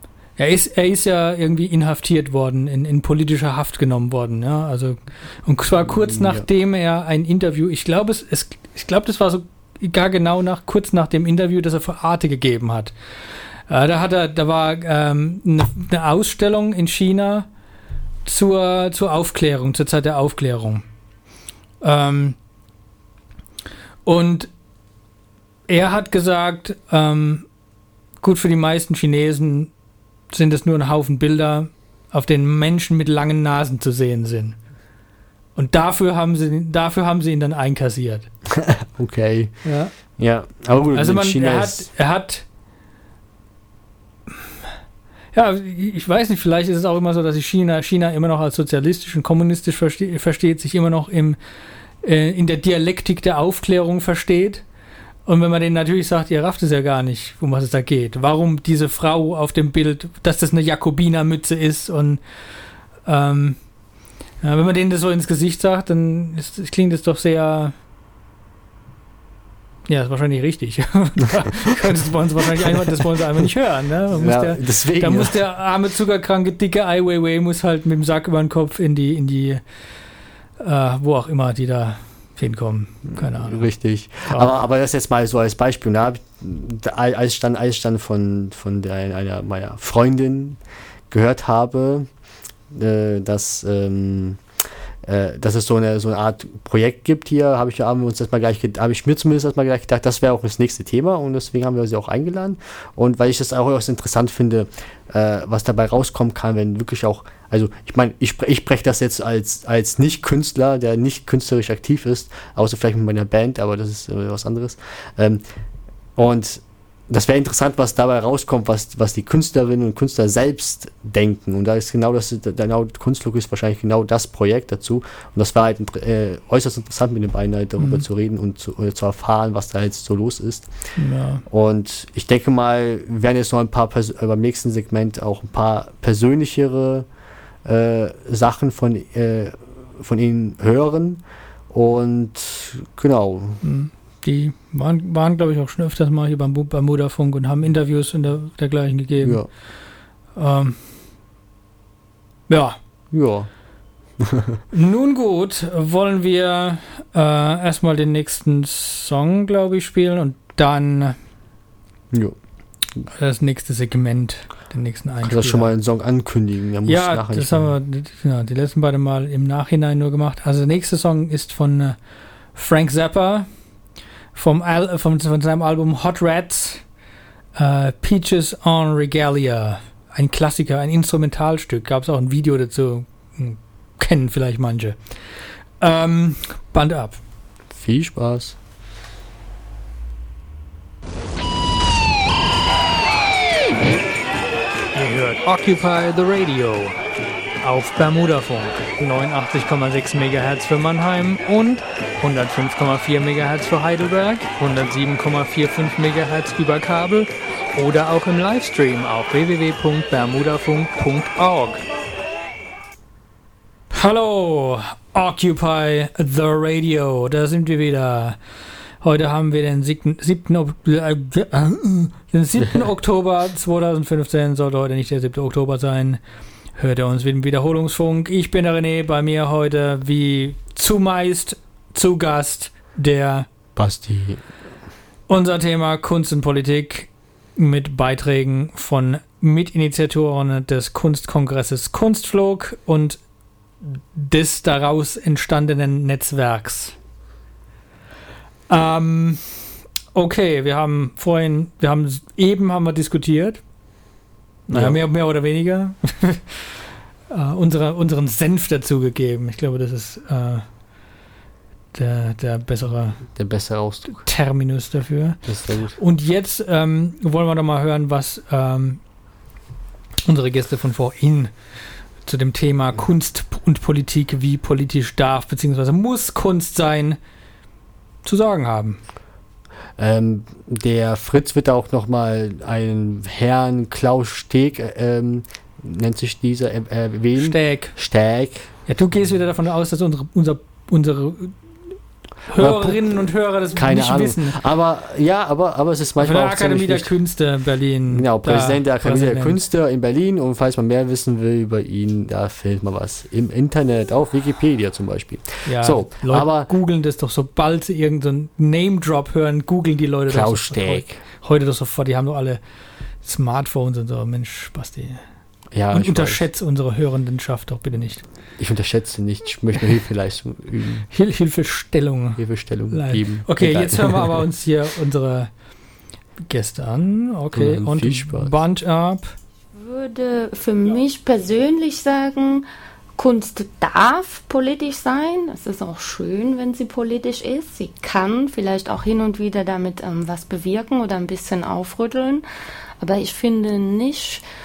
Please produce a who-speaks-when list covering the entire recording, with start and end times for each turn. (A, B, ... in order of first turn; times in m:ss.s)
0:00.4-0:12.9 A
0:06.1-0:06.4 B
0:13.7-0:17.5 A
0:18.2-0:20.8 A
0:21.8-0:22.4 A
0:24.0-0:24.5 A
0:25.7-0:27.5 A
0:28.2-0:29.7 A
0:30.3-0:34.6 A
0:35.6-0:38.3 A
0:38.5-0:39.6 B
0:39.6-0:39.9 A
0:40.1-0:41.9 B
0:40.9-0:42.4 A
0:45.3-0:51.4 A
0:52.0-0:54.6 A
0:55.2-1:02.2 A
1:03.0-1:03.7 A
1:04.4-1:07.7 A
1:09.9-1:19.6 A
1:14.1-1:15.4 B
1:20.6-1:23.7 A
1:23.1-1:30.6 B
1:31.1-1:32.1 B
1:32.7-1:34.4 B
1:35.0-1:55.4 B
1:56.2-2:10.7 B
2:07.8-2:08.0 A
2:11.0-2:11.4 A
2:11.4-2:17.1 B
2:17.6-2:23.6 B
2:23.6-2:29.4 A
2:29.2-2:29.5 B
2:30.3-2:30.8 A
2:32.5-2:32.8 A
2:33.1-2:33.5 B
2:34.2-2:34.6 B
2:34.7-2:41.2 A
2:43.1-2:45.7 A
2:45.2-2:47.7 B
2:46.9-2:52.0 A
2:52.5-2:53.5 A
2:54.3-2:56.8 A
2:57.6-3:05.1 A
3:05.8-3:07.2 A
3:07.7-3:08.6 B
3:14.9-3:17.0 A
3:17.6-3:31.8 A
3:33.9-3:38.4 A
3:39.0-3:46.2 A
3:46.8-3:53.5 A
3:53.8-3:54.4 B
3:55.3-4:03.2 A
4:03.8-4:07.0 A
4:08.7-4:13.6 A
4:14.7-4:16.7 A
4:14.7-4:15.0 B
4:17.3-4:20.7 A
4:21.9-4:23.2 A
4:23.3-4:24.3 B
4:24.1-4:25.4 A
4:25.5-4:26.0 B
4:25.9-4:29.0 A
4:30.2-4:31.5 A
4:32.2-4:37.2 A
4:38.2-4:39.0 A
4:40.0-4:48.7 B
4:47.4-4:47.9 A
4:48.8-4:51.6 A
4:52.5-4:54.6 A
4:52.5-4:53.2 B
4:53.8-4:57.1 B
4:56.2-4:59.6 A
4:58.1-5:06.7 B
5:05.6-5:12.6 A
5:10.3-5:11.2 B
5:13.2-5:15.2 A
5:15.7-5:16.4 B
5:15.9-5:18.2 A
5:18.6-5:21.1 B
5:21.1-5:25.5 A
5:22.4-5:24.4 B
5:26.5-5:29.3 A
5:27.5-5:28.5 B
5:29.7-5:32.6 C
5:33.2-5:42.4 C
5:43.0-5:44.4 C